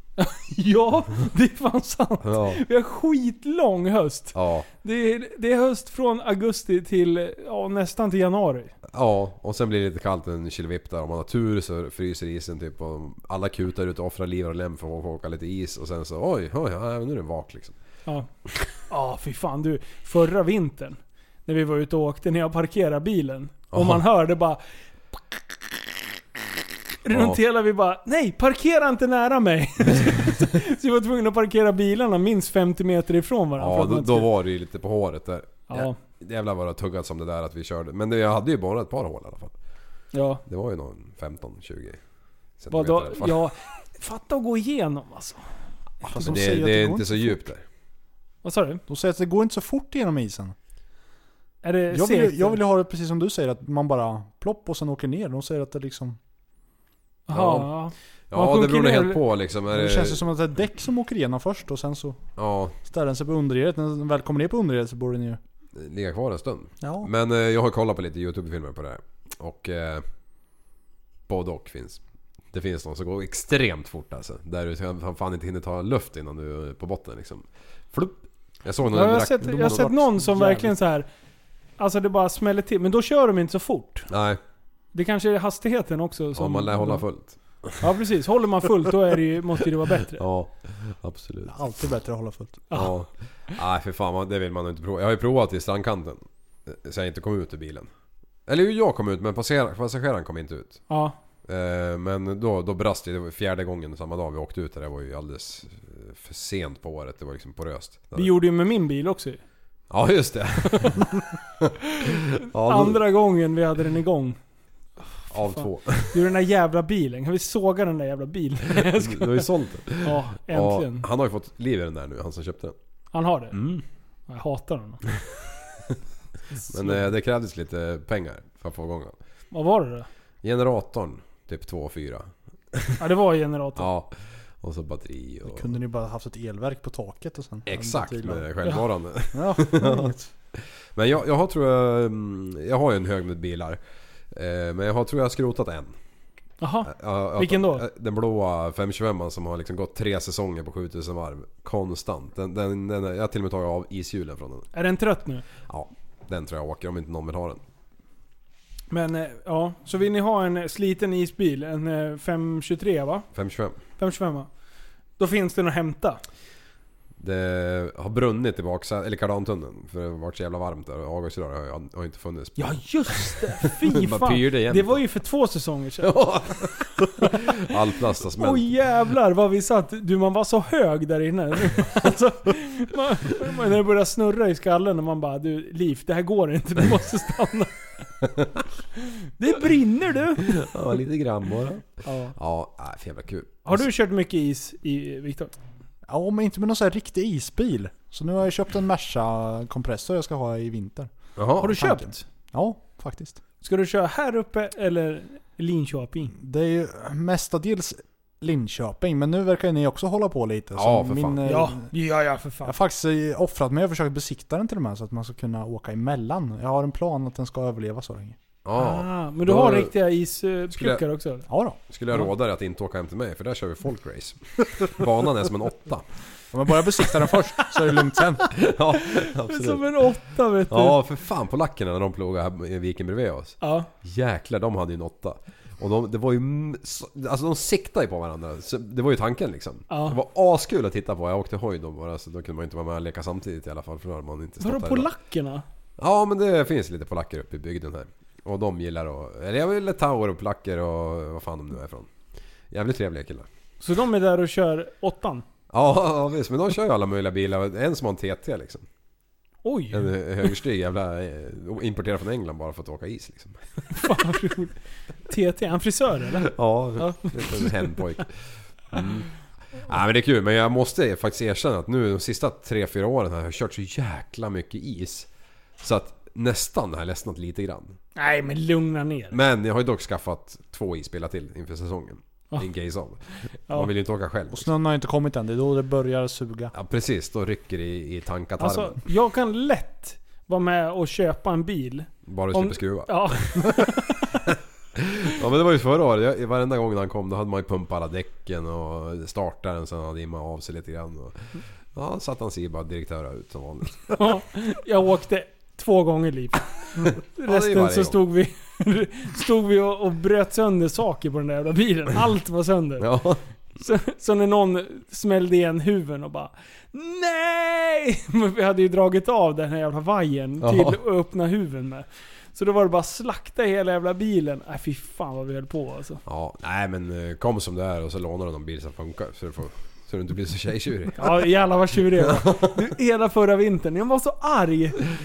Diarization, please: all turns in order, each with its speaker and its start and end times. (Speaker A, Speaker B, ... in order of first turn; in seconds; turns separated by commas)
Speaker A: 0.2-8.7, Speaker B: 2.2-2.6, Speaker B: 4.3-4.7, Speaker B: 8.9-17.7, Speaker A: 18.9-24.6, Speaker B: 23.7-24.0, Speaker A: 27.0-34.3, Speaker B: 27.1-27.4, Speaker B: 33.6-39.5, Speaker A: 35.7-36.0, Speaker A: 40.1-40.4, Speaker B: 40.5-42.0, Speaker B: 42.6-43.4, Speaker A: 42.7-45.4, Speaker C: 46.0-47.5, Speaker B: 46.0-47.6, Speaker A: 48.4-48.8, Speaker C: 48.9-50.5, Speaker A: 51.6-52.6, Speaker C: 51.9-56.2, Speaker A: 57.3-59.2, Speaker B: 57.3-57.7, Speaker B: 58.3-60.2, Speaker C: 59.7-62.2, Speaker B: 62.4-62.7, Speaker C: 62.8-65.4, Speaker B: 65.8-70.0, Speaker C: 66.8-67.1, Speaker B: 71.3-72.0, Speaker B: 72.5-80.0, Speaker A: 78.9-81.1, Speaker C: 79.5-80.7, Speaker A: 81.8-84.1, Speaker B: 84.1-84.4, Speaker A: 84.9-87.0, Speaker B: 86.3-87.8, Speaker A: 87.8-90.2, Speaker B: 90.2-91.6, Speaker C: 91.5-92.6, Speaker B: 92.7-97.9, Speaker B: 98.5-100.8, Speaker A: 100.9-101.1, Speaker B: 101.5-108.3, Speaker A: 108.1-109.4, Speaker B: 109.9-111.1, Speaker A: 110.7-111.0, Speaker B: 111.6-113.0, Speaker A: 112.6-114.4, Speaker B: 115.3-116.2, Speaker A: 115.4-119.5, Speaker B: 118.7-122.7, Speaker A: 120.0-121.0, Speaker A: 123.1-123.6, Speaker B: 123.5-123.8, Speaker A: 124.3-125.0, Speaker B: 126.7-129.2, Speaker A: 126.7-127.0, Speaker A: 129.5-130.1, Speaker B: 130.4-133.0, Speaker A: 133.0-133.9, Speaker B: 133.8-135.7, Speaker C: 135.4-138.5, Speaker B: 137.7-143.8, Speaker C: 139.3-140.3, Speaker B: 144.3-145.9, Speaker A: 146.6-147.8, Speaker B: 146.8-154.7, Speaker A: 154.7-155.4, Speaker B: 155.7-157.6, Speaker A: 158.9-163.3, Speaker B: 163.3-163.8, Speaker A: 164.0-164.5, Speaker A: 165.2-166.2, Speaker B: 167.2-175.0, Speaker A: 172.6-176.1, Speaker B: 176.0-178.7, Speaker A: 177.2-177.4, Speaker A: 178.4-187.7, Speaker B: 188.2-188.5, Speaker A: 189.4-190.7, Speaker B: 190.4-193.8, Speaker A: 192.0-192.3, Speaker A: 193.7-195.5, Speaker C: 196.1-201.1, Speaker B: 201.4-201.8, Speaker A: 201.6-202.2, Speaker C: 201.6-203.4, Speaker A: 203.6-206.3, Speaker C: 206.3-211.9, Speaker B: 210.7-211.4, Speaker A: 211.5-212.7, Speaker C: 212.6-218.4, Speaker B: 218.6-219.9, Speaker A: 218.8-221.4, Speaker B: 220.7-221.0, Speaker C: 221.5-221.8, Speaker B: 221.9-226.1, Speaker C: 226.5-228.6, Speaker B: 228.5-229.8, Speaker A: 229.1-231.0, Speaker B: 230.7-245.1, Speaker A: 233.6-233.9, Speaker A: 239.9-240.2, Speaker A: 244.6-245.6, Speaker B: 246.0-252.1, Speaker B: 252.7-253.5, Speaker A: 253.8-255.4, Speaker B: 255.7-258.9, Speaker A: 259.6-260.1, Speaker B: 259.9-263.6, Speaker A: 263.9-264.7, Speaker A: 265.3-268.0, Speaker B: 266.5-268.3, Speaker B: 268.9-269.3, Speaker B: 269.9-275.3, Speaker B: 275.8-278.0, Speaker A: 278.2-279.4, Speaker B: 279.3-284.7, Speaker C: 284.5-286.7, Speaker B: 286.7-289.0, Speaker A: 288.6-294.4, Speaker B: 292.3-293.9, Speaker B: 295.0-304.2, Speaker A: 304.1-313.1, Speaker B: 307.0-308.2, Speaker B: 313.0-313.4, Speaker A: 313.8-326.2, Speaker B: 320.6-321.0, Speaker B: 326.2-331.5, Speaker A: 331.2-335.1, Speaker B: 332.3-332.7